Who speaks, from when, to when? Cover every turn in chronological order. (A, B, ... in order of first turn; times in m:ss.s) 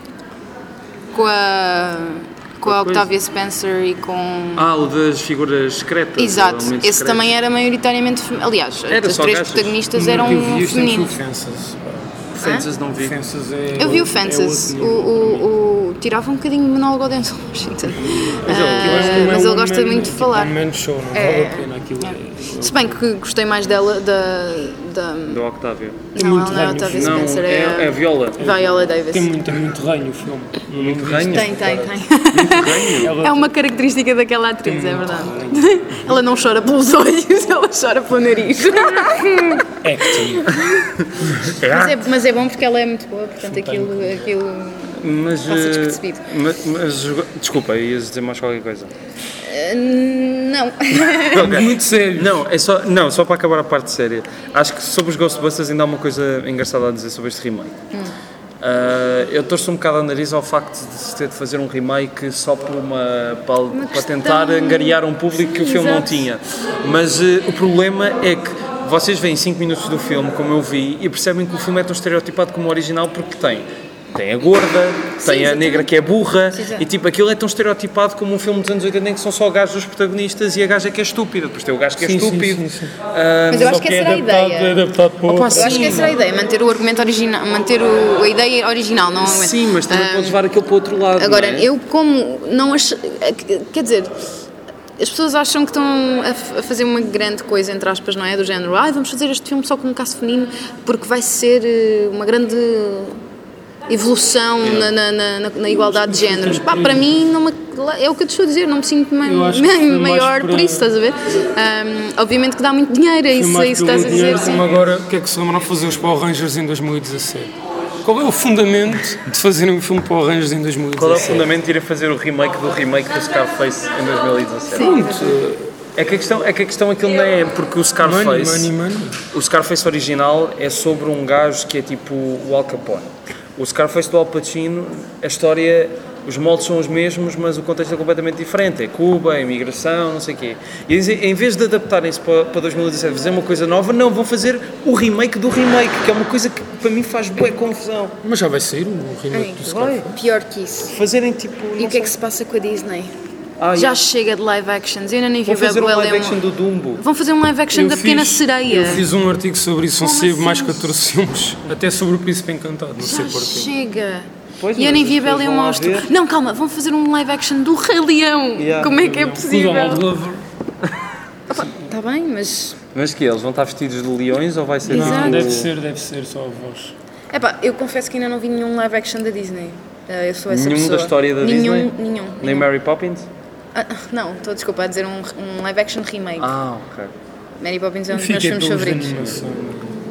0:01.1-0:04.7 A
0:02.6-0:03.1 B
0:04.6-0:07.3 B
0:06.2-0:11.1 A
0:08.9-0:09.8 B
0:09.9-0:12.1 C
0:12.4-0:13.1 B
0:12.4-0:12.7 A
0:13.0-0:15.5 C
0:13.8-0:20.5 A
0:18.0-0:23.0 C
0:18.4-0:19.3 B
0:21.1-0:25.4 A
0:25.3-0:26.0 B
0:26.1-0:29.4 A
0:26.1-0:27.3 C
0:26.9-0:28.4 B
0:28.4-0:32.0 C
0:30.8-0:31.6 B
0:31.3-0:40.9 A
0:32.3-0:33.1 B
0:32.9-0:33.5 C
0:34.6-0:36.0 C
0:39.8-0:40.5 C
0:41.2-0:41.7 C
0:41.6-0:41.9 B
0:41.6-0:46.2 A
0:43.4-0:44.3 C
0:45.0-0:48.9 B
0:49.4-0:51.6 A
0:51.3-0:52.4 C
0:51.3-0:57.8 B
0:58.6-1:23.8 B
1:03.7-1:06.2 A
1:15.2-1:15.9 A
1:16.5-1:16.8 A
1:22.0-1:22.9 C
1:23.5-1:24.9 A
1:23.6-1:26.1 C
1:25.3-1:26.2 B
1:25.5-1:30.4 A
1:29.2-1:31.7 B
1:31.2-1:34.2 A
1:35.0-1:43.2 A
1:43.9-1:54.7 A
1:44.6-1:44.9 B
1:46.0-1:47.1 C
1:49.2-1:50.8 C
1:53.3-2:01.5 C
2:01.0-2:05.0 B
2:04.7-2:05.3 A
2:04.8-2:05.7 C
2:05.9-2:08.7 B
2:08.0-2:09.2 C
2:09.3-2:28.1 B
2:28.2-2:30.1 C
2:29.3-2:30.9 A
2:29.6-2:30.0 B
2:30.9-2:32.1 B
2:31.8-2:33.1 A
2:33.6-2:34.0 B
2:33.7-2:36.4 A
2:35.4-2:37.0 B
2:37.0-2:39.0 A
2:37.7-2:43.7 C
2:40.0-2:41.0 A
2:43.0-2:50.0 A
2:44.6-2:46.1 B
2:48.6-2:48.9 B
2:48.8-2:50.4 C
2:51.5-2:52.8 A
2:52.9-2:55.7 B
2:54.8-2:55.5 A
2:54.8-2:56.9 C
2:57.3-3:02.7 A
3:00.5-3:03.2 B
3:03.7-3:06.5 A
3:06.4-3:07.1 B
3:07.6-3:09.4 A
3:08.1-3:10.0 C